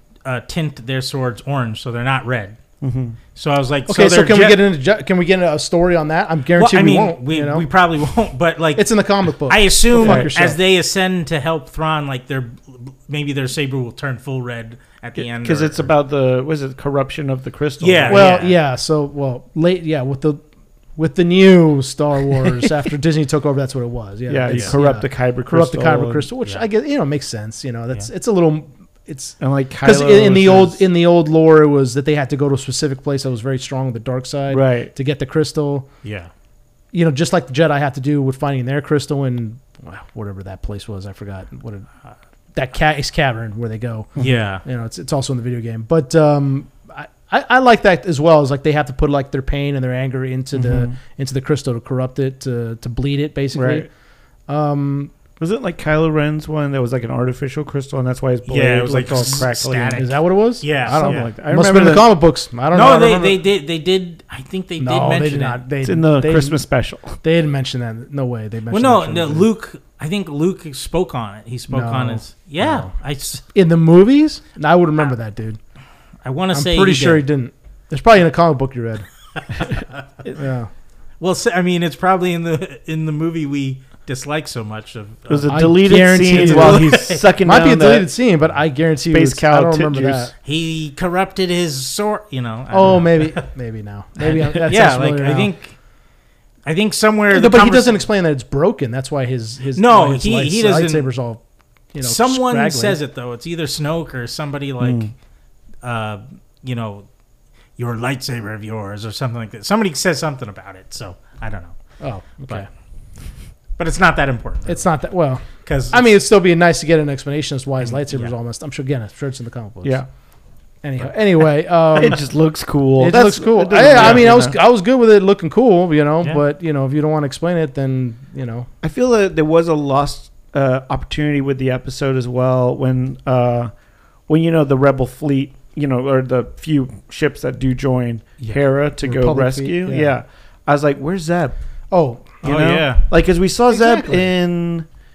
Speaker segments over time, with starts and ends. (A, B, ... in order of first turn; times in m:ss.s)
0:00.2-0:02.6 A
0:02.8-0:03.2 B
0:03.4-0:04.6 A
0:03.9-0:07.7 C
0:06.6-0:15.9 A
0:08.8-0:10.6 C
0:10.0-0:10.3 B
0:15.2-0:18.4 B
0:17.8-0:18.5 A
0:18.1-0:20.4 C
0:21.0-0:35.9 C
0:24.3-0:26.3 B
0:24.5-0:24.7 A
0:29.4-0:30.8 B
0:34.5-0:34.9 B
0:36.0-0:36.3 A
0:36.9-0:41.9 C
0:42.5-0:53.9 C
0:44.2-0:44.4 B
0:44.2-0:44.6 A
0:50.5-0:51.0 B
0:53.5-0:53.9 B
0:54.5-0:55.1 C
0:55.4-1:00.1 B
0:58.5-1:01.3 A
0:59.1-1:03.4 C
1:00.9-1:02.1 B
1:02.7-1:05.6 A
1:04.8-1:06.6 C
1:05.8-1:07.2 B
1:07.2-1:09.5 C
1:08.7-1:13.4 A
1:11.7-1:12.9 C
1:13.5-1:15.6 C
1:16.2-1:17.2 A
1:16.5-1:19.1 C
1:19.5-1:20.4 B
1:20.4-1:20.7 C
1:21.2-1:27.2 A
1:25.3-1:28.1 B
1:25.5-1:30.3 C
1:29.1-1:30.3 B
1:30.4-1:33.5 A
1:32.7-1:35.5 C
1:34.2-1:35.8 A
1:36.6-1:38.0 A
1:37.3-1:41.4 C
1:39.8-1:41.1 A
1:41.9-1:43.0 C
1:42.0-1:45.1 A
1:44.8-1:45.1 B
1:45.8-1:47.1 A
1:47.8-1:51.7 A
1:52.0-1:52.7 C
1:53.8-1:54.9 A
1:54.6-2:00.0 C
1:55.6-1:56.0 A
1:57.9-1:58.3 A
2:00.8-2:02.2 C
2:01.9-2:04.6 B
2:03.0-2:08.7 C
2:08.8-2:13.7 B
2:14.3-2:21.5 B
2:19.0-2:20.1 C
2:21.9-2:22.4 C
2:22.4-2:24.9 B
2:22.4-2:23.0 A
2:23.7-2:24.3 C